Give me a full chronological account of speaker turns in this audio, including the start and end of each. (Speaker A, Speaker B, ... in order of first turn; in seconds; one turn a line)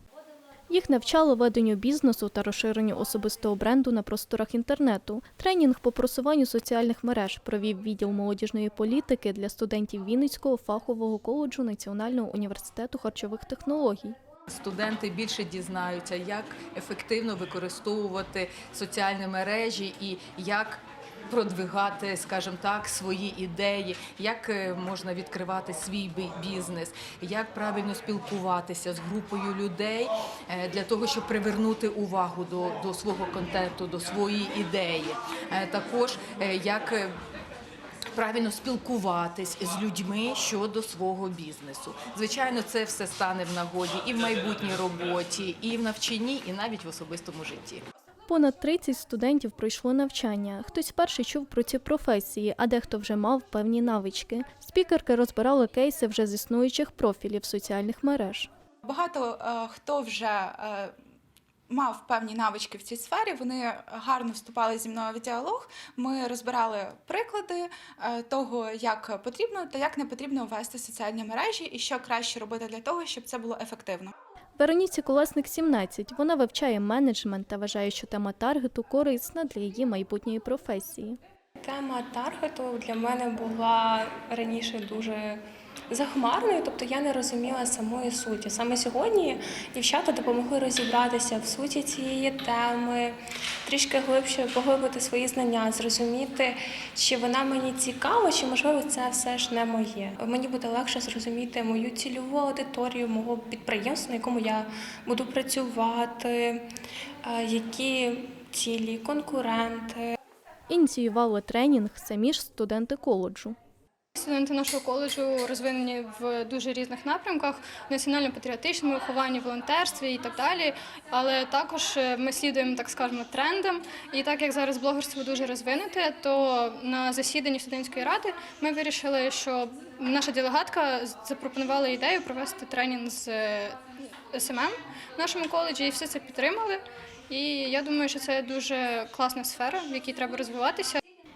Speaker A: 0.7-14.2
Speaker B: 14.5-37.1
Speaker B: 38.1-47.9
Speaker A: 48.3-58.5
Speaker C: 58.8-60.9
Speaker C: 61.7-74.1
Speaker A: 74.6-81.2
Speaker D: 81.6-106.7
Speaker D: 107.2-110.1
Speaker A: 110.7-113.6
Speaker E: 114.2-133.8
Speaker E: 134.3-141.0